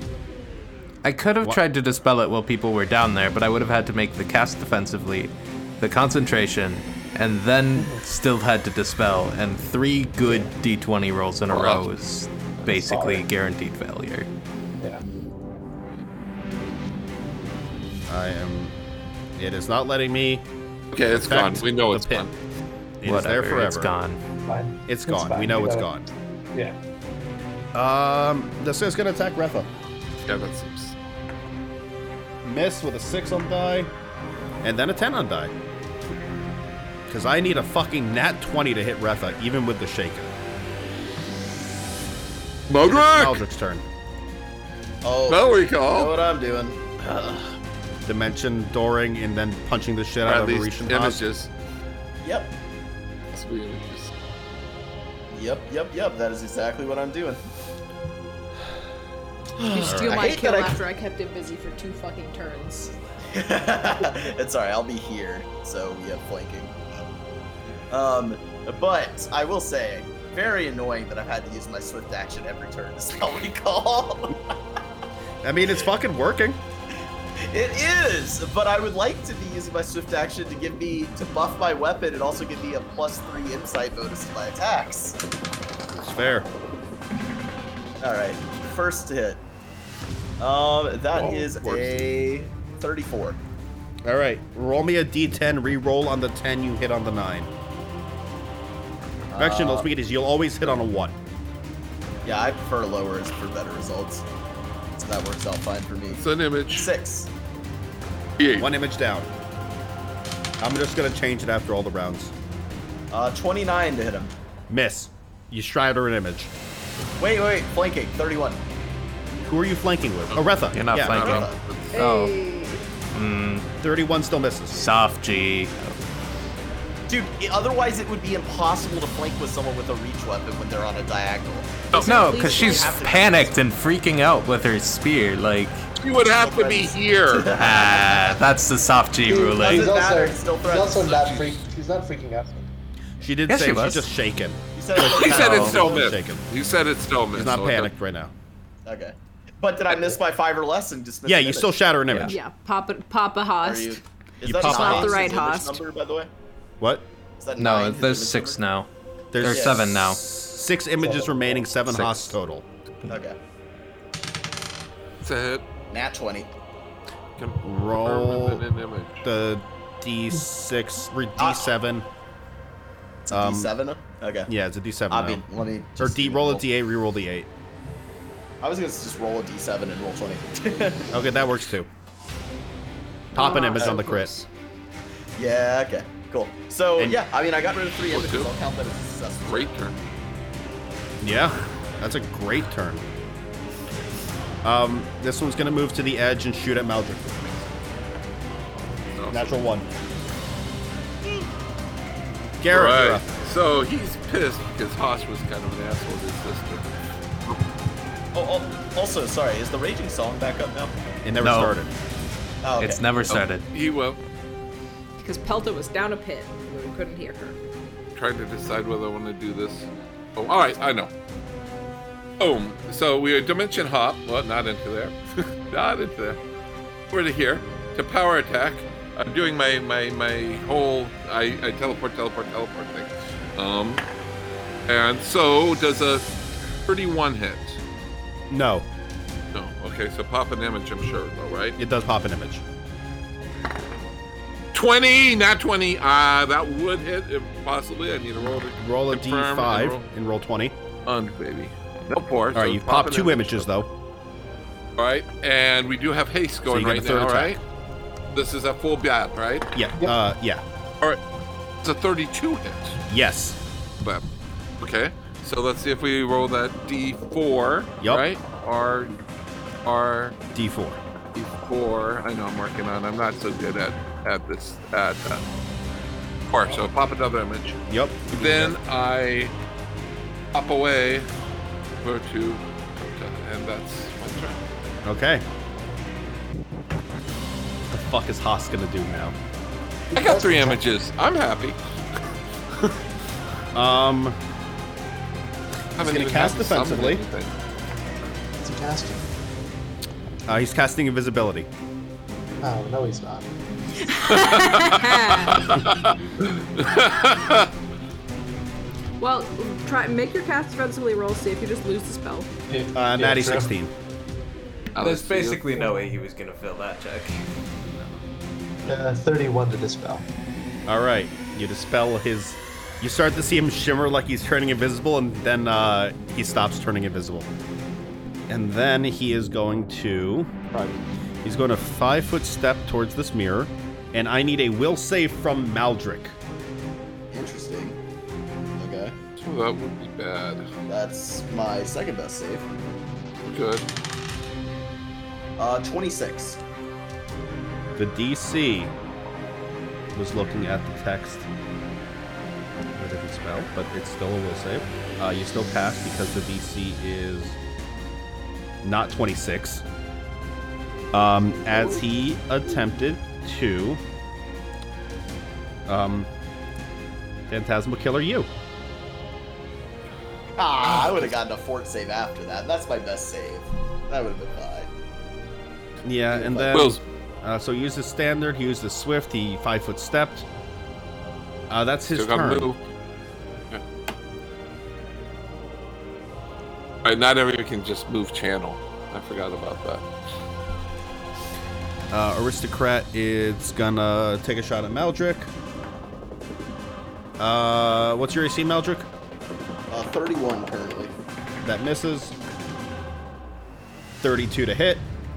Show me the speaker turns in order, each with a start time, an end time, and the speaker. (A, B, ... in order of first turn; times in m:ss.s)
0:01.0-0:14.3 A
0:07.7-0:08.0 B
0:10.2-0:10.5 B
0:11.5-0:11.9 C
0:12.6-0:13.2 B
0:18.1-0:18.7 D
0:19.4-0:20.4 D
0:20.9-0:22.3 C
0:21.1-0:22.3 D
0:23.0-0:23.9 D
0:23.0-0:24.2 A
0:24.5-0:26.7 B
0:24.9-0:26.1 D
0:27.7-0:29.7 D
0:30.2-0:31.0 C
0:32.4-0:33.9 D
0:34.6-0:35.5 D
0:37.1-0:40.3 D
0:42.7-0:43.4 C
0:42.8-0:43.8 D
0:45.0-0:47.5 E
0:45.3-0:46.1 C
0:48.0-0:51.2 D
0:50.2-0:51.5 C
0:52.2-0:52.5 E
0:53.3-0:54.1 C
0:55.3-0:57.4 E
0:59.6-1:00.8 E
0:59.6-1:02.9 F
0:59.9-1:00.2 D
1:03.3-1:07.0 E
1:07.9-1:14.4 E
1:15.4-1:16.6 D
1:17.4-1:25.2 E
1:25.9-1:26.5 D
1:28.0-1:29.4 E
1:30.4-1:33.4 E
1:31.1-1:32.1 C
1:34.0-1:37.5 D
1:39.3-1:39.9 E
1:39.4-1:41.2 D
1:42.2-1:44.2 E
1:45.0-1:47.3 E
1:46.1-1:46.9 C
1:48.4-1:48.7 C
1:48.6-1:49.3 D
1:50.6-1:52.3 D
1:53.1-1:54.3 E
1:54.7-1:56.5 D
1:57.2-1:58.6 E
1:59.4-2:01.3 D
2:00.7-2:02.4 A
2:01.0-2:02.0 C
2:01.2-2:01.6 E
2:01.9-2:02.8 F
2:03.1-2:03.7 A
2:03.8-2:04.8 D
2:04.7-2:06.0 A
2:07.1-2:13.5 E
2:11.9-2:12.3 C
2:11.9-2:13.0 F
2:12.0-2:15.9 A
2:16.0-2:17.5 C
2:16.4-2:18.4 E
2:17.4-2:19.9 A
2:19.2-2:22.7 B
2:19.6-2:21.1 E
2:21.0-2:21.6 C
2:23.2-2:26.4 D
2:23.5-2:24.1 A
2:24.8-2:26.1 E
2:25.0-2:27.9 C
2:25.4-2:25.7 A
2:27.3-2:28.3 D
2:28.8-2:31.8 E
2:29.9-2:30.2 B
2:31.2-2:32.4 D
2:32.2-2:34.0 F
2:33.6-2:36.3 E
2:34.4-2:35.2 D
2:34.6-2:35.8 F
2:37.4-2:38.6 E
2:37.6-2:40.2 A
2:39.3-2:42.6 D
2:39.4-2:39.8 E
2:41.0-2:41.8 B
2:41.9-2:42.3 A
2:43.1-2:43.4 E
2:45.2-2:45.6 C
2:45.9-2:46.5 E
2:47.4-2:49.2 C
2:47.6-2:48.6 D
2:49.2-2:52.0 D
2:51.4-2:51.7 E
2:53.2-2:54.5 E
2:53.3-2:53.7 D
2:54.5-2:55.4 D
2:55.1-2:56.6 E
2:56.0-2:57.5 D
2:58.6-3:01.1 E
3:01.1-3:01.9 D
3:03.3-3:04.3 D
3:03.3-3:04.5 F
3:05.4-3:09.7 E
3:08.1-3:08.5 C
3:09.4-3:10.0 C
3:11.2-3:13.0 D
3:14.6-3:17.2 D
3:19.1-3:19.6 C
3:19.3-3:19.9 D
3:22.6-3:23.2 D
3:22.7-3:26.8 C
3:28.3-3:31.0 E
3:31.2-3:31.9 D
3:31.4-3:31.8 A
3:32.6-3:33.0 E
3:32.8-3:33.6 A
3:33.3-3:34.2 C
3:35.2-3:37.6 F
3:38.2-3:41.1 C
3:42.4-3:45.2 C
3:45.7-3:46.4 C
3:47.1-3:54.0 C
3:54.9-3:56.2 C
3:56.9-3:57.8 C
3:58.5-3:58.9 D
3:59.5-4:01.8 C
4:01.8-4:02.6 D
4:04.7-4:10.0 C
4:08.8-4:10.8 D
4:11.0-4:13.7 C
4:12.5-4:13.9 D
4:15.0-4:17.6 C
4:16.6-4:17.6 D
4:18.3-4:19.7 C
4:19.7-4:20.6 D
4:21.8-4:23.0 C
4:23.1-4:23.6 D
4:24.8-4:29.2 C
4:29.8-4:30.4 C
4:30.5-4:31.0 D
4:31.3-4:35.4 C
4:36.5-4:37.8 C
4:37.9-4:38.8 D
4:38.3-4:39.5 C
4:40.5-4:41.3 C
4:42.0-4:44.6 C
4:45.0-4:45.4 D
4:47.9-4:49.4 D
4:50.1-4:50.8 B
4:50.1-4:52.2 C
4:53.7-4:54.4 D
4:56.0-4:57.2 D
4:56.0-4:57.5 C
4:58.6-4:59.2 B
5:00.5-5:01.7 D
5:02.6-5:03.5 B
5:04.0-5:05.8 F
5:04.3-5:07.7 C
5:09.2-5:12.5 F
5:12.7-5:13.7 B
5:12.9-5:13.9 D
5:14.9-5:15.6 C
5:15.0-5:17.4 A
5:17.9-5:18.2 D
5:18.8-5:20.2 B
5:20.9-5:27.5 D
5:28.5-5:30.5 D
5:31.4-5:36.4 D
5:37.3-5:38.0 E
5:38.8-5:39.2 E
5:39.4-5:40.7 C
5:40.9-5:42.7 E
5:43.4-5:43.9 C
5:45.6-5:46.6 E
5:48.0-5:48.9 D
5:50.1-5:51.5 D
5:52.9-5:57.6 D
5:58.8-5:59.8 D
6:01.1-6:04.0 D
6:05.9-6:06.3 D
6:07.5-6:08.5 D
6:10.6-6:14.9 E
6:16.0-6:20.4 D
6:16.3-6:16.8 E
6:16.7-6:17.0 C
6:21.7-6:22.7 D
6:22.1-6:22.8 C
6:27.0-6:30.0 C
6:32.1-6:35.5 D
6:37.4-6:39.1 D
6:39.9-6:41.1 E
6:41.6-6:42.3 D
6:44.2-6:45.1 D